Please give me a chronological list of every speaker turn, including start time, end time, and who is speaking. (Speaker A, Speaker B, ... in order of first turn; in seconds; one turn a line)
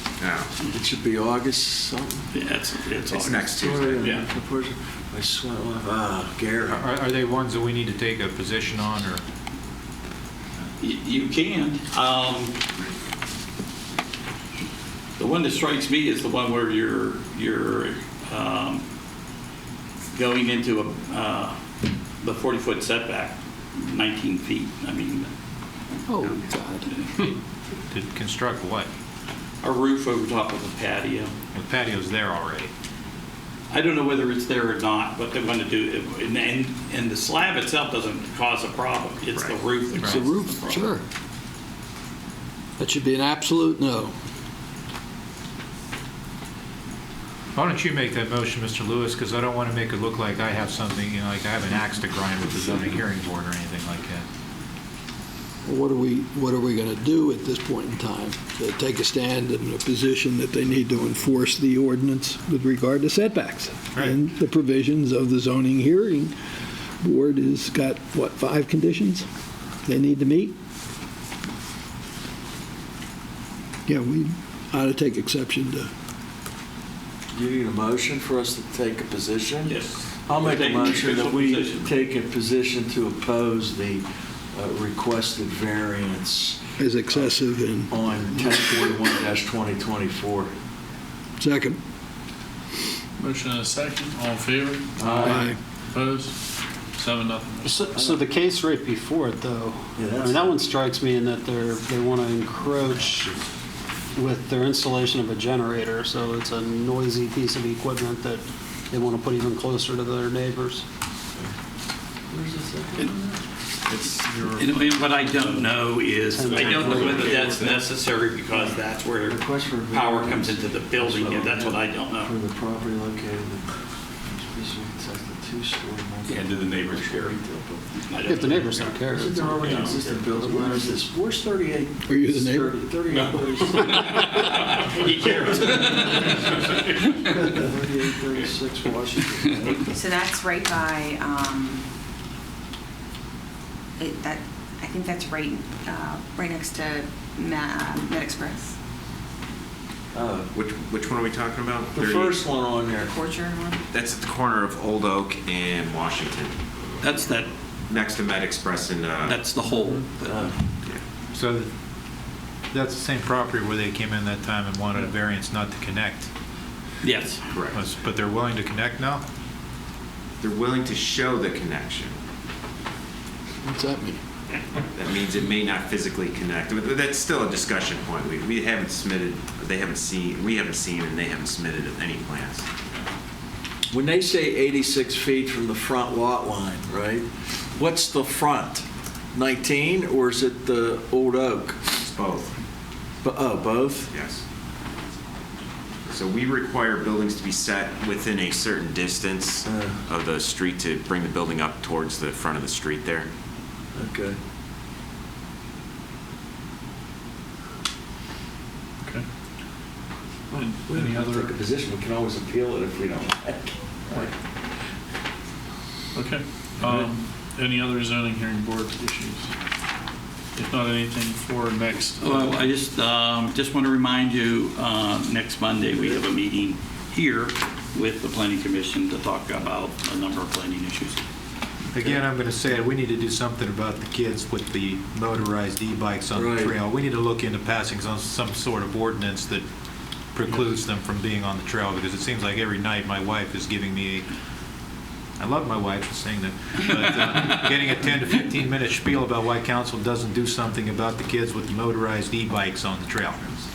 Speaker A: 0.2-0.5
Speaker B: 0.6-2.3
Speaker C: 2.3-4.2
Speaker A: 3.1-4.1
Speaker B: 3.6-6.9
Speaker D: 6.7-9.2
Speaker C: 10.8-12.6
Speaker C: 15.2-18.8
Speaker C: 20.1-21.6
Speaker C: 22.2-25.3
Speaker E: 26.1-27.3
Speaker D: 27.9-28.9
Speaker C: 29.6-31.3
Speaker D: 31.5-32.7
Speaker C: 33.7-40.9
Speaker D: 40.0-40.3
Speaker E: 40.0-41.0
Speaker E: 42.8-44.1
Speaker D: 47.5-54.3
Speaker E: 55.7-66.4
Speaker D: 63.9-64.2
Speaker E: 67.0-69.3
Speaker E: 69.9-70.5
Speaker E: 73.9-75.9
Speaker B: 77.3-79.8
Speaker C: 79.7-81.9
Speaker B: 80.3-87.3
Speaker E: 86.8-88.6
Speaker B: 87.9-90.5
Speaker E: 91.4-91.8
Speaker F: 93.2-97.8
Speaker B: 95.0-95.5
Speaker E: 95.2-95.6
Speaker G: 97.6-103.3
Speaker B: 97.9-98.2
Speaker B: 100.0-100.7
Speaker G: 104.2-110.8
Speaker B: 112.3-113.4
Speaker F: 114.0-114.6
Speaker C: 114.5-122.3
Speaker G: 116.3-117.2
Speaker F: 116.4-117.8
Speaker B: 118.5-123.7
Speaker B: 124.3-127.8
Speaker C: 126.3-127.4
Speaker C: 128.0-130.0
Speaker G: 128.2-130.9
Speaker B: 129.1-134.1
Speaker E: 132.1-132.7
Speaker C: 133.1-137.6
Speaker B: 137.4-139.9
Speaker H: 139.9-141.8
Speaker H: 144.0-148.7
Speaker B: 150.1-150.5
Speaker A: 150.5-152.4
Speaker B: 151.9-153.1
Speaker H: 153.0-153.8
Speaker A: 153.9-156.5
Speaker C: 157.0-157.5
Speaker A: 157.9-159.4
Speaker C: 159.2-160.5
Speaker B: 160.3-160.6
Speaker D: 161.3-161.7
Speaker D: 162.7-166.3
Speaker C: 167.0-167.4
Speaker A: 167.5-167.8
Speaker D: 167.7-169.2
Speaker A: 170.4-172.2
Speaker E: 173.6-174.2
Speaker A: 174.9-182.7
Speaker B: 183.9-191.8
Speaker A: 191.9-192.6
Speaker B: 193.2-194.1
Speaker A: 194.1-194.4
Speaker A: 196.1-203.3
Speaker B: 199.7-200.0
Speaker B: 203.9-204.4
Speaker F: 210.5-211.5
Speaker B: 210.5-214.3
Speaker F: 216.1-219.5
Speaker F: 220.6-222.5
Speaker C: 222.2-231.2
Speaker D: 231.9-239.7
Speaker B: 236.3-236.8
Speaker D: 240.3-244.2
Speaker D: 245.4-253.4